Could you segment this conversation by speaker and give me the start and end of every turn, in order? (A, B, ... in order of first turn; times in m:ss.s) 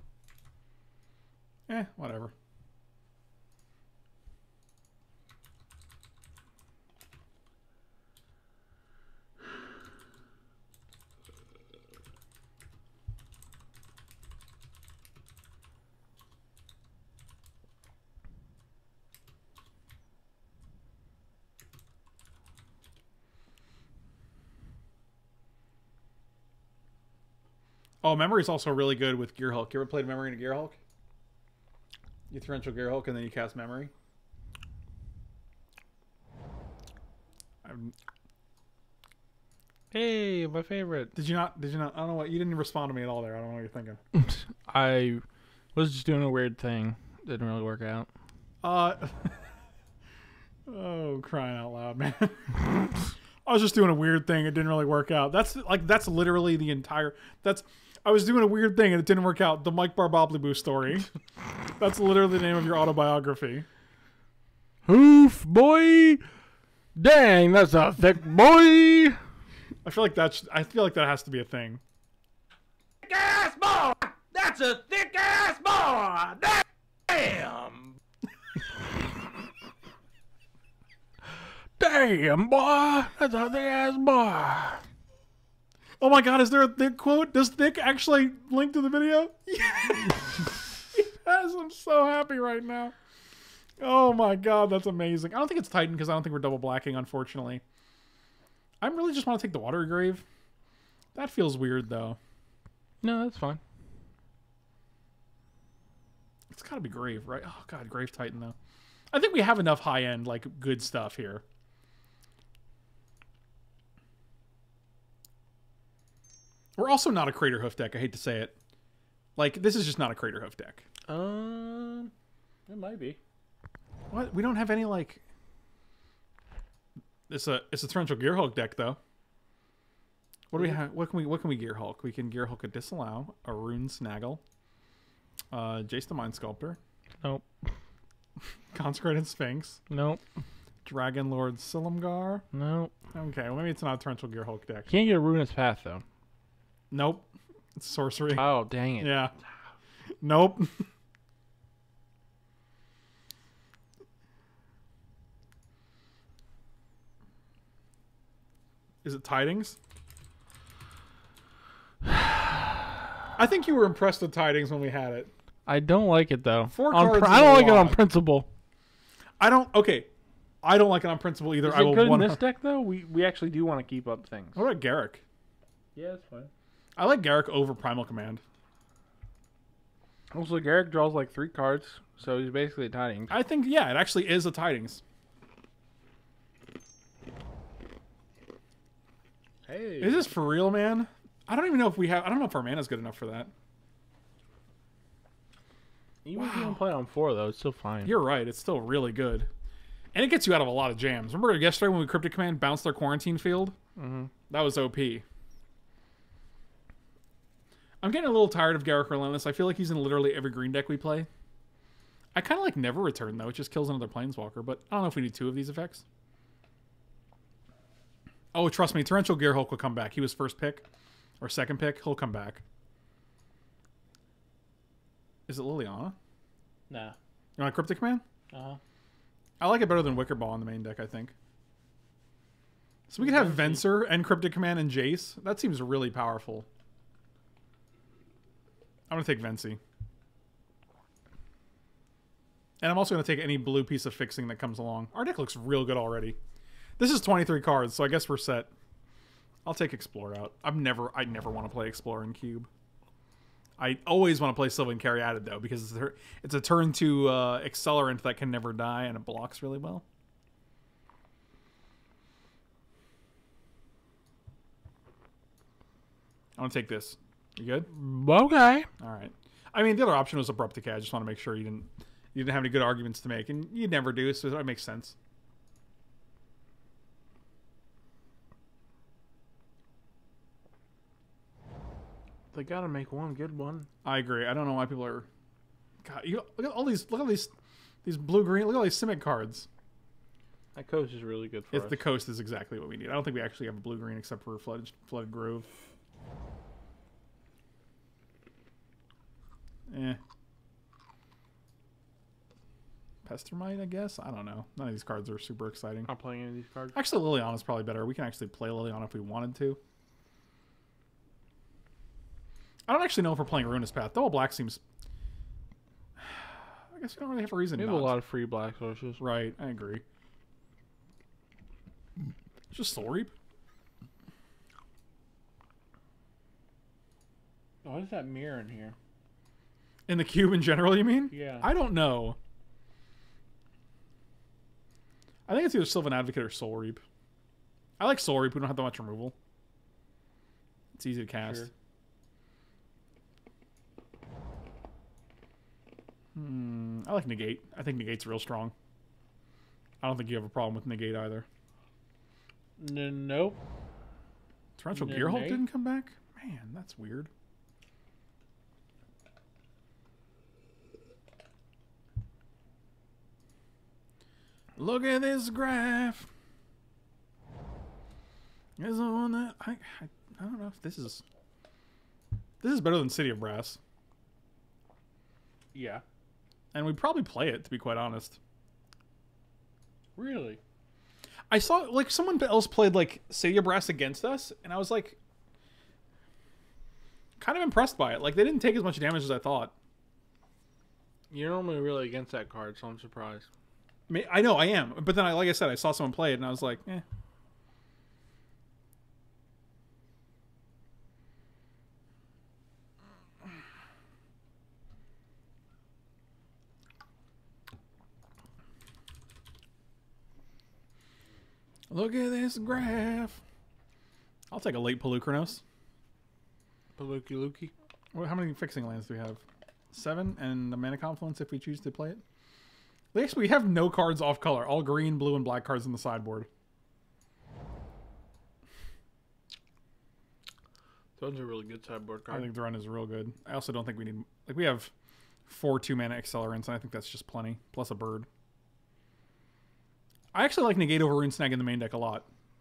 0:01.7-0:02.3 A
0:28.0-0:30.8 A
0:32.3-0:33.9 A
0:37.6-0:37.9 A
0:39.9-0:41.1 B
0:41.1-0:44.0 A
0:44.2-0:45.2 B
0:45.8-0:48.1 B
0:48.6-0:49.5 A
0:50.7-0:52.9 A
0:53.4-1:01.1 A
1:01.8-1:03.7 A
1:04.9-1:06.2 B
1:07.0-1:09.2 B
1:09.8-1:11.8 A
1:13.1-1:17.9 C
1:21.8-1:24.8 B
1:26.0-1:33.0 A
1:33.8-1:37.6 A
1:38.8-1:40.2 A
1:41.2-1:42.2 A
1:43.0-1:43.6 B
1:46.5-1:48.6 A
1:49.1-1:51.4 A
1:56.8-1:58.6 A
1:59.4-2:00.8 A
2:01.1-2:02.1 B
2:02.7-2:03.2 B
2:04.1-2:05.2 A
2:07.3-2:09.0 A
2:10.5-2:14.4 A
2:10.6-2:10.8 B
2:15.5-2:16.8 A
2:17.2-2:17.5 B
2:18.7-2:19.8 A
2:19.9-2:20.2 B
2:20.8-2:22.4 A
2:22.5-2:22.9 B
2:23.1-2:24.9 A
2:24.9-2:26.0 B
2:26.9-2:29.3 A
2:28.3-2:29.2 B
2:30.2-2:30.9 A
2:39.0-2:39.8 A
2:42.1-2:42.6 B
2:43.4-2:45.3 A
2:45.7-2:48.5 B
2:46.7-2:48.0 A
2:49.4-2:50.1 A
2:50.6-2:52.4 A
2:51.6-2:54.6 B
2:54.6-2:55.2 A
2:56.0-2:56.5 B
2:57.0-2:58.4 A
3:00.3-3:03.3 B
3:03.3-3:05.0 A
3:09.7-3:10.3 B
3:10.0-3:13.5 A
3:16.2-3:18.2 B
3:16.4-3:16.8 A
3:18.0-3:19.5 A
3:20.1-3:23.8 A
3:24.0-3:24.3 B
3:24.5-3:25.2 A
3:28.0-3:31.3 A
3:32.4-3:36.0 A
3:38.5-3:40.8 A
3:41.4-3:42.6 A
3:45.5-3:46.2 A
3:46.9-3:47.2 B
3:47.6-3:48.2 A
3:48.5-3:48.8 B
3:49.6-3:51.3 A
3:53.1-3:56.7 A
3:53.2-3:53.9 B
3:59.1-3:59.8 A
4:02.8-4:06.4 A
4:07.0-4:08.7 A
4:09.6-4:12.7 A
4:13.8-4:20.0 A
4:26.6-4:27.9 A
4:27.9-4:28.9 B
4:29.0-4:35.2 A
4:42.5-4:43.9 B
4:44.0-4:45.3 A
4:46.0-4:47.5 A
4:48.0-4:49.7 A
4:50.8-4:52.1 B
4:51.7-4:55.7 A
4:59.9-5:00.2 A
5:03.2-5:06.1 A
5:06.1-5:07.0 B
5:07.0-5:09.8 A
5:12.9-5:14.8 A
5:16.2-5:18.2 A
5:17.8-5:19.2 B
5:19.2-5:20.0 A
5:22.7-5:23.3 A
5:27.8-5:29.0 B
5:30.1-5:32.4 A
5:31.3-5:31.7 B
5:35.5-5:37.0 A
5:38.0-5:39.4 A
5:41.0-5:41.7 A
5:41.4-5:41.7 B
5:46.4-5:48.7 A
5:50.0-5:51.5 A
5:52.8-5:53.6 B
5:54.8-5:57.3 A
5:54.9-5:55.6 B
6:04.8-6:06.3 A
6:08.8-6:11.2 A
6:12.6-6:13.8 A
6:15.7-6:16.0 B
6:16.7-6:18.4 A
6:20.2-6:20.6 B
6:21.5-6:25.2 A
6:27.4-6:29.7 A
6:31.3-6:33.5 B
6:34.1-6:37.0 A
6:51.9-6:53.4 A
6:54.5-6:55.6 A
6:57.0-6:57.7 B
6:58.1-7:02.2 A
7:03.1-7:06.5 A
7:11.2-7:12.5 B
7:12.3-7:14.9 A
7:15.5-7:18.3 A
7:20.3-7:22.3 A